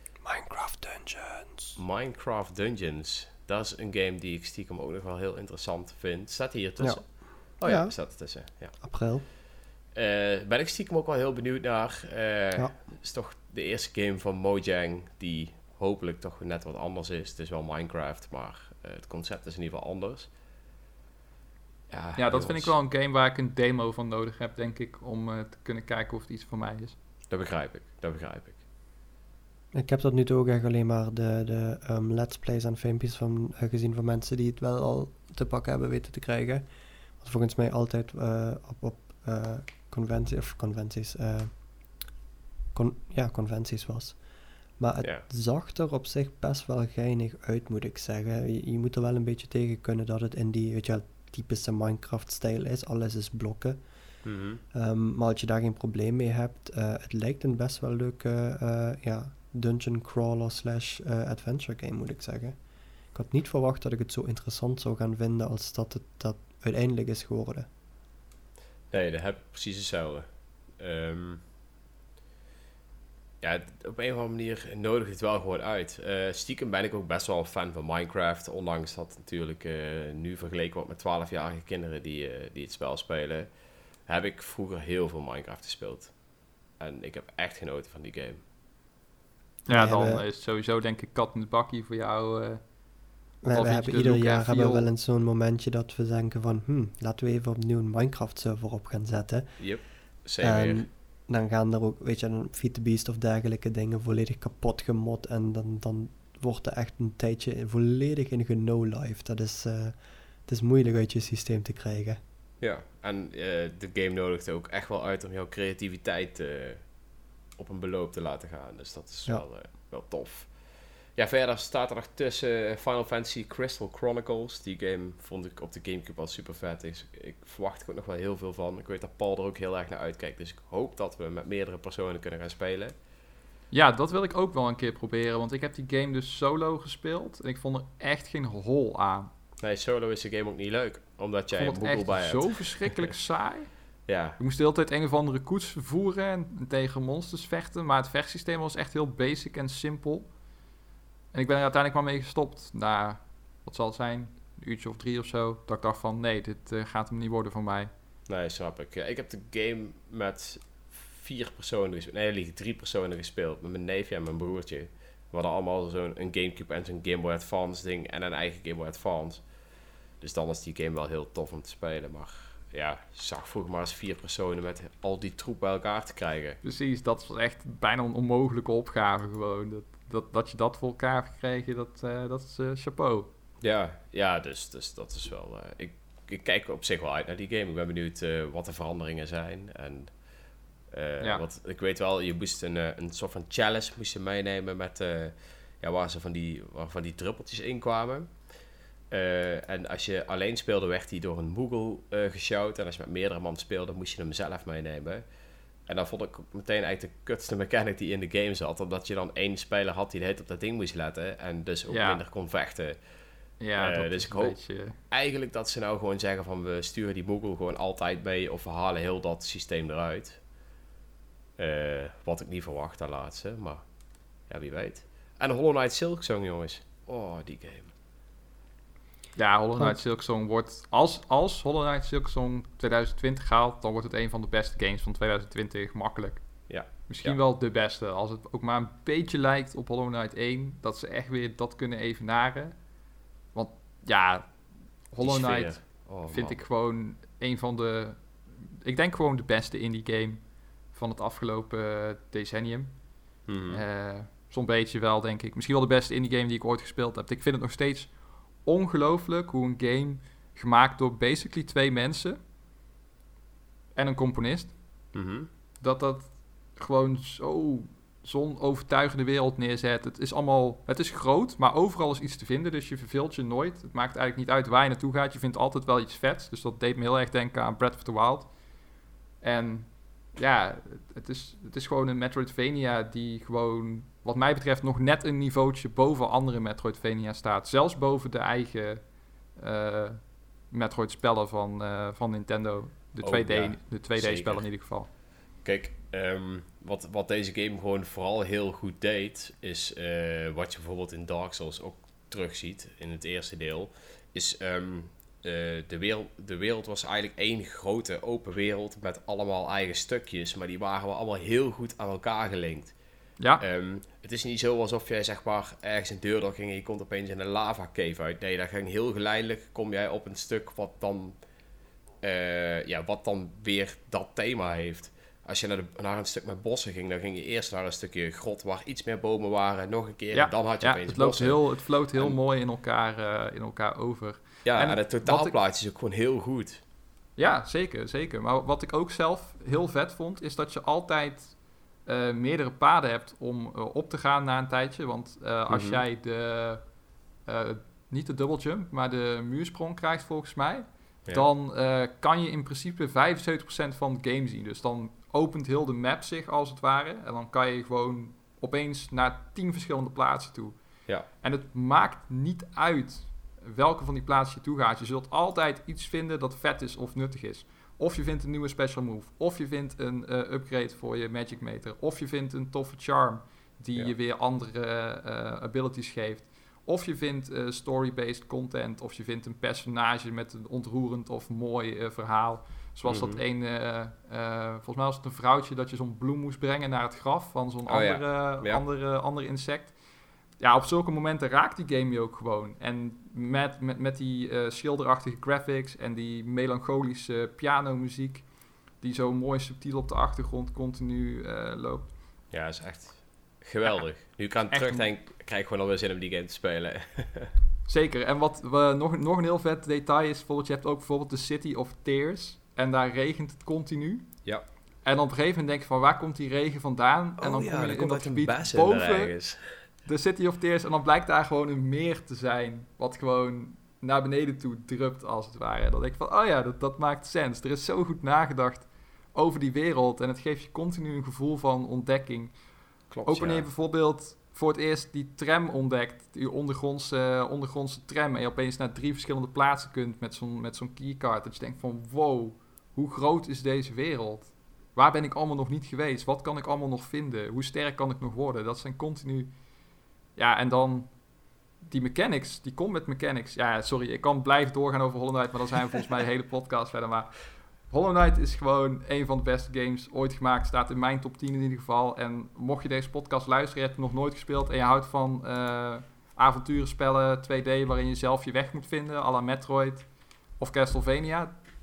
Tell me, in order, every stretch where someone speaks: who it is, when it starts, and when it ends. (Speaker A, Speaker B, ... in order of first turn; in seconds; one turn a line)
Speaker A: 0.2-1.8
Speaker B: 1.8-8.8
Speaker A: 6.8-8.0
Speaker A: 8.8-9.2
Speaker B: 9.9-20.3
Speaker B: 21.9-22.7
Speaker C: 22.2-27.0
Speaker B: 27.3-28.6
Speaker A: 29.7-36.6
Speaker A: 37.2-41.6
Speaker A: 42.7-44.2
Speaker A: 44.8-53.8
Speaker B: 45.0-45.3
Speaker B: 54.2-54.6
Speaker A: 54.7-62.6
Speaker A: 63.1-67.7
Speaker B: 68.9-71.4
Speaker B: 73.4-83.5
Speaker B: 84.0-86.1
Speaker B: 86.8-88.4
Speaker C: 89.7-92.6
Speaker A: 89.7-90.2
Speaker A: 93.4-99.7
Speaker C: 93.5-94.9
Speaker B: 99.6-100.8
Speaker A: 100.4-112.2
Speaker B: 112.6-116.9
Speaker B: 117.6-120.5
Speaker B: 121.2-132.9
Speaker C: 133.7-139.3
Speaker B: 139.6-143.1
Speaker C: 141.5-143.7
Speaker B: 144.1-144.4
Speaker C: 144.4-150.3
Speaker C: 151.3-157.9
Speaker B: 158.3-169.4
Speaker B: 170.2-176.6
Speaker C: 176.6-183.3
Speaker B: 183.6-190.2
Speaker B: 190.9-198.3
Speaker B: 199.1-205.2
Speaker B: 205.9-213.0
Speaker C: 211.9-212.2
Speaker C: 213.6-215.0
Speaker B: 213.8-220.4
Speaker B: 221.6-223.8
Speaker B: 224.5-227.9
Speaker C: 229.4-242.8
Speaker B: 236.7-237.4
Speaker C: 243.5-244.6
Speaker C: 245.1-250.4
Speaker B: 245.2-246.6
Speaker C: 250.9-252.9
Speaker B: 253.5-253.8
Speaker C: 253.7-258.1
Speaker C: 258.6-262.4
Speaker C: 263.9-264.8
Speaker B: 265.1-265.5
Speaker C: 265.8-278.5
Speaker C: 279.4-289.0
Speaker C: 289.6-295.1
Speaker B: 293.2-294.7
Speaker B: 295.6-312.9
Speaker B: 313.6-321.4
Speaker B: 322.2-331.6
Speaker C: 330.3-335.6
Speaker B: 334.6-336.8
Speaker C: 337.4-346.8
Speaker B: 345.7-346.0
Speaker C: 347.5-360.8
Speaker C: 361.4-390.0
Speaker B: 383.1-383.4
Speaker B: 387.9-388.8
Speaker C: 390.6-398.5
Speaker C: 399.0-402.1
Speaker B: 402.5-407.5
Speaker C: 404.7-405.1
Speaker C: 407.9-414.3
Speaker C: 415.1-419.4
Speaker B: 417.4-419.7
Speaker C: 420.1-432.6
Speaker B: 433.1-433.7
Speaker C: 433.3-449.5
Speaker C: 450.4-451.2
Speaker C: 451.8-470.1
Speaker C: 470.6-471.6